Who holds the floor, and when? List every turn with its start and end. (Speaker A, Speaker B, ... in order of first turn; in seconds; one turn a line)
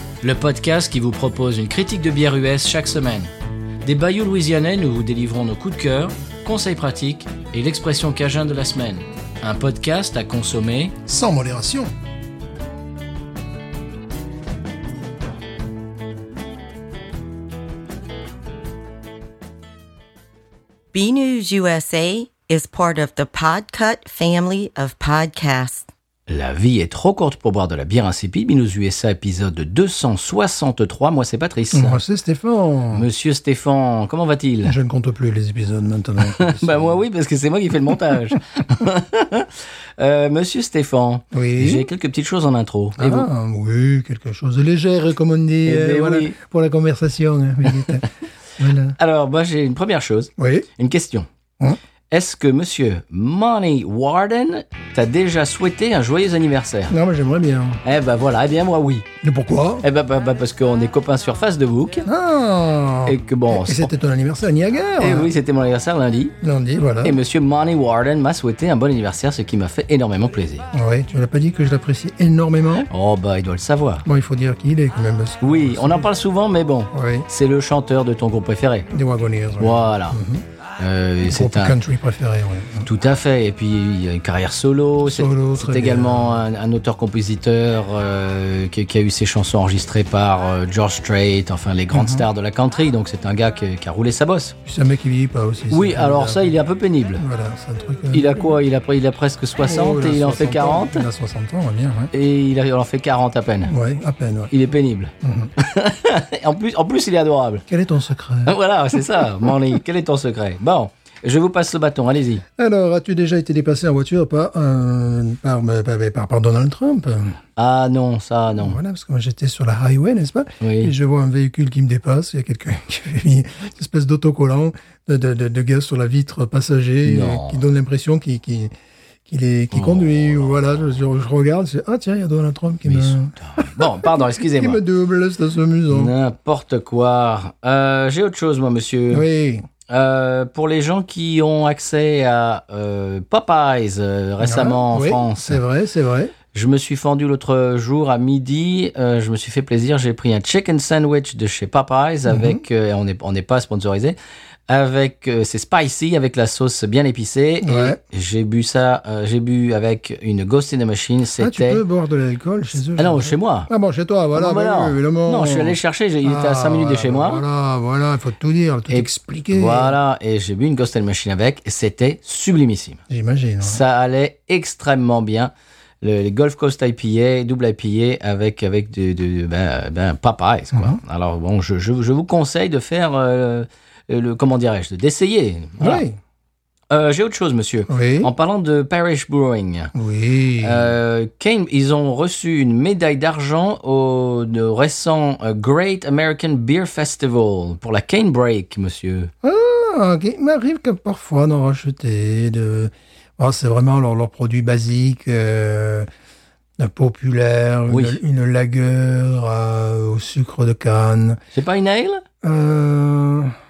Speaker A: 0.2-3.3
Speaker A: 3.8-11.0
Speaker B: 11.1-11.9
Speaker C: 20.9-25.9
Speaker A: 26.3-32.0
Speaker B: 31.7-33.1
Speaker A: 32.9-34.8
Speaker B: 34.6-37.0
Speaker A: 36.2-43.3
Speaker B: 41.3-41.9
Speaker B: 43.0-48.0
Speaker A: 45.6-46.4
Speaker B: 48.6-49.0
Speaker A: 49.0-51.3
Speaker B: 50.4-50.7
Speaker A: 52.1-56.9
Speaker B: 56.9-57.8
Speaker A: 57.8-59.0
Speaker B: 59.2-59.8
Speaker A: 59.8-62.0
Speaker B: 62.0-65.3
Speaker A: 63.0-63.9
Speaker A: 65.0-66.3
Speaker B: 66.4-67.2
Speaker A: 67.0-70.6
Speaker B: 70.7-72.9
Speaker A: 72.8-74.0
Speaker B: 74.0-76.1
Speaker A: 75.4-78.9
Speaker B: 76.9-77.3
Speaker B: 78.9-80.4
Speaker A: 79.6-80.2
Speaker A: 80.8-81.8
Speaker B: 81.2-82.9
Speaker A: 82.8-94.5
Speaker B: 85.0-86.4
Speaker B: 91.9-92.2
Speaker B: 94.6-96.6
Speaker A: 95.7-97.2
Speaker B: 97.2-98.5
Speaker A: 98.1-101.0
Speaker B: 99.6-102.1
Speaker A: 102.1-103.7
Speaker B: 103.7-104.5
Speaker A: 104.5-107.6
Speaker B: 105.2-105.5
Speaker B: 107.7-109.5
Speaker A: 108.5-112.4
Speaker B: 112.6-117.4
Speaker A: 117.5-118.8
Speaker B: 118.6-128.7
Speaker A: 120.6-120.9
Speaker A: 127.0-127.6
Speaker B: 129.2-136.1
Speaker A: 129.7-130.8
Speaker A: 132.8-134.8
Speaker A: 135.9-139.2
Speaker B: 139.1-139.6
Speaker A: 139.9-145.6
Speaker B: 144.4-146.3
Speaker A: 146.5-154.2
Speaker B: 152.3-152.6
Speaker A: 154.7-161.8
Speaker B: 157.6-158.0
Speaker B: 161.4-169.9
Speaker A: 162.9-163.7
Speaker A: 164.3-167.4
Speaker A: 168.9-173.0
Speaker B: 173.1-173.8
Speaker A: 173.6-175.5
Speaker A: 176.0-186.0
Speaker B: 180.7-181.0
Speaker B: 185.8-186.2
Speaker A: 186.9-189.9
Speaker B: 187.9-188.3
Speaker B: 189.9-190.9
Speaker A: 190.6-199.3
Speaker B: 199.4-206.1
Speaker B: 206.8-211.4
Speaker A: 207.9-208.2
Speaker A: 211.5-212.2
Speaker B: 212.4-213.5